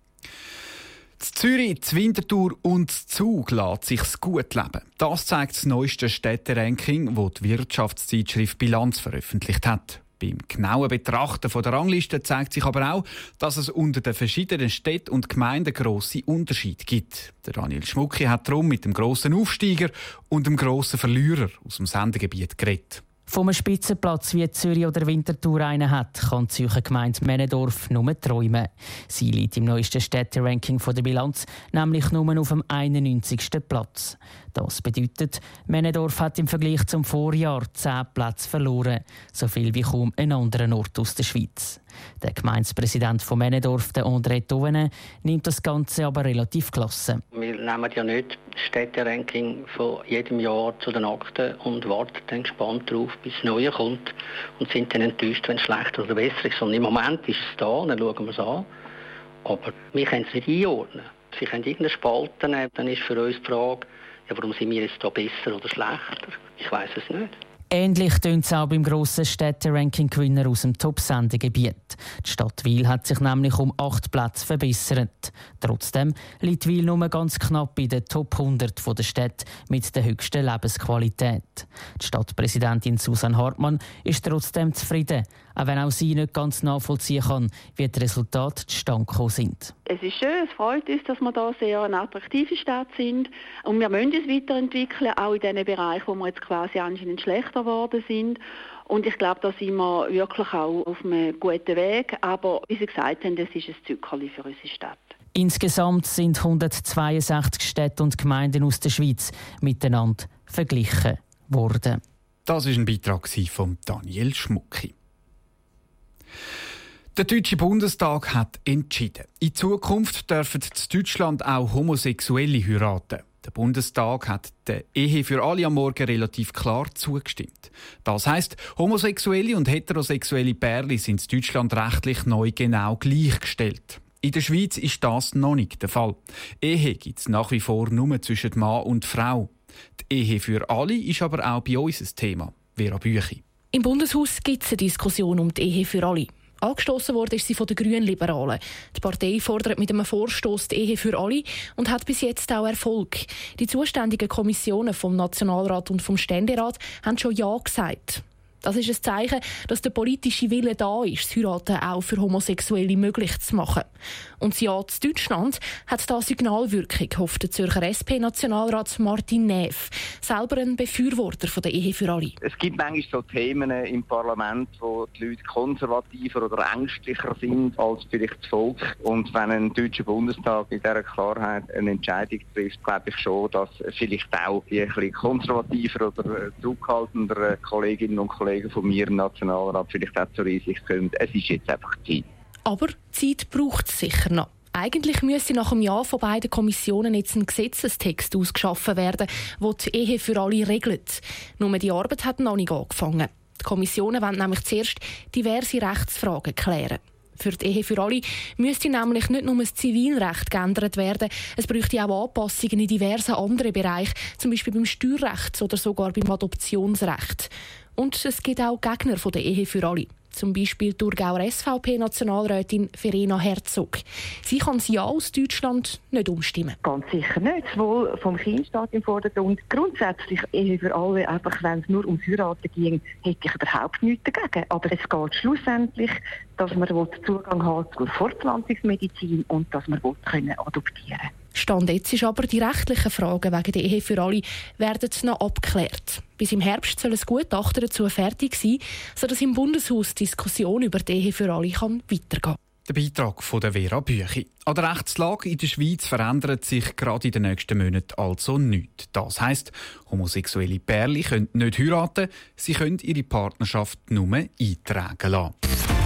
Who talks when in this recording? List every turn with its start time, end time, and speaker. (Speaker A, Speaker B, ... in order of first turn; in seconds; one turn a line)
Speaker A: 1.2-23.0
Speaker B: 23.3-47.2
Speaker C: 47.3-58.7
Speaker C: 59.5-67.4
Speaker B: 67.7-89.7
Speaker D: 89.9-105.1
Speaker B: 105.4-112.0
Speaker A: 112.5-114.9
Speaker A: 117.2-143.4
Speaker E: 143.7-163.9
Speaker E: 164.4-172.4
Speaker F: 172.4-192.2
Speaker E: 192.7-226.8
Speaker G: 226.9-241.3
Speaker E: 241.6-252.6
Speaker A: 252.9-265.5